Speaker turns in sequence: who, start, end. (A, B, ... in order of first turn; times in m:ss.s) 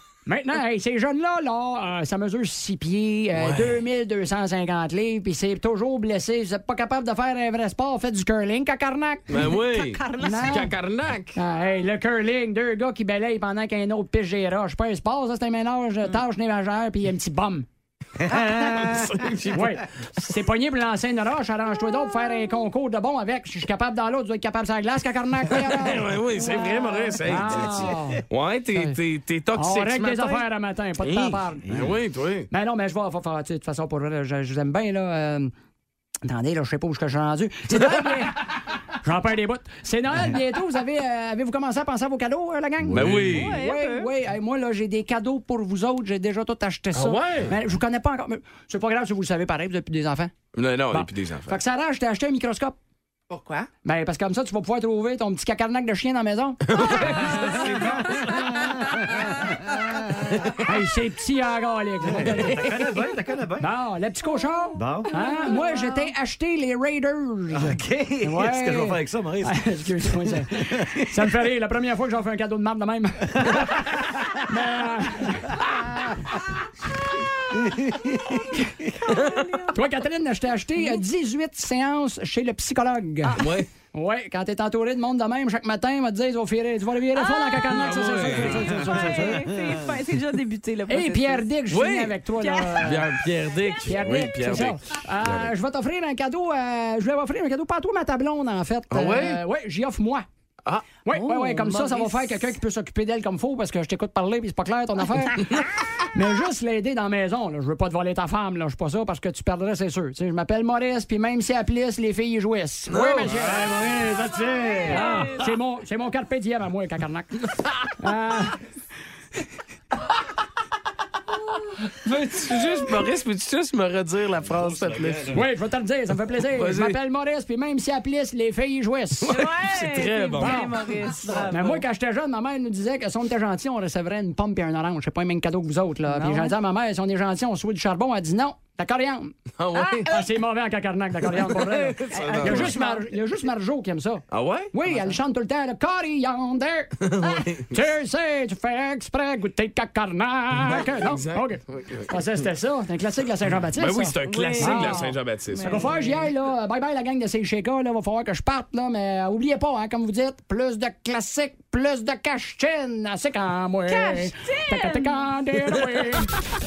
0:00.2-0:09.6 A
0:03.4-0:03.8 B
0:09.3-0:11.4 B
0:09.8-0:10.5 C
0:10.2-0:10.7 A
0:11.4-0:17.6 A
0:18.2-0:19.3 D
0:18.3-0:19.8 B
0:19.5-0:28.2 A
0:25.5-0:30.4 B
0:27.5-0:28.0 D
0:29.5-0:31.7 A
0:31.0-0:32.5 B
0:31.7-0:31.9 D
0:32.5-0:35.5 A
0:36.2-0:50.3 A
0:42.9-0:43.3 D
0:42.9-0:43.6 B
0:43.3-0:44.1 C
0:46.9-0:47.5 B
0:50.5-0:51.6 B
0:50.9-0:52.8 A
0:53.8-0:58.4 A
0:56.7-0:58.5 B
0:57.4-1:00.3 D
1:00.3-1:00.6 B
1:00.6-1:02.9 A
1:02.0-1:03.7 D
1:03.6-1:16.4 A
1:04.8-1:05.3 D
1:07.5-1:11.3 D
1:13.4-1:14.2 D
1:17.5-1:19.1 D
1:19.1-1:19.6 B
1:19.3-1:19.7 C
1:19.7-1:29.4 A
1:23.3-1:23.7 B
1:27.1-1:27.8 C
1:27.7-1:29.0 B
1:28.5-1:31.5 C
1:30.9-1:33.1 A
1:31.7-1:32.2 B
1:32.4-1:33.0 C
1:32.8-1:35.5 B
1:33.5-1:34.2 C
1:33.8-1:40.2 A
1:38.9-1:39.4 B
1:41.0-1:57.3 A
1:41.1-1:42.5 C
1:52.9-1:53.7 B
1:53.2-1:55.0 D
1:54.8-1:55.4 C
1:57.5-1:57.9 B
1:58.0-1:58.6 A
2:01.9-2:05.4 B
2:04.4-2:05.5 D
2:05.3-2:09.4 A
2:06.5-2:07.0 B
2:09.2-2:10.9 B
2:09.3-2:11.8 C
2:10.4-2:10.7 A
2:11.4-2:19.3 A
2:16.1-2:16.6 C
2:19.6-2:20.2 B
2:20.0-2:26.9 A
2:21.3-2:22.8 B
2:22.1-2:23.1 C
2:24.3-2:24.7 B
2:27.0-2:27.8 B
2:27.7-2:46.3 A
2:30.5-2:32.2 B
2:33.7-2:35.9 B
2:34.2-2:36.3 C
2:43.9-2:45.3 C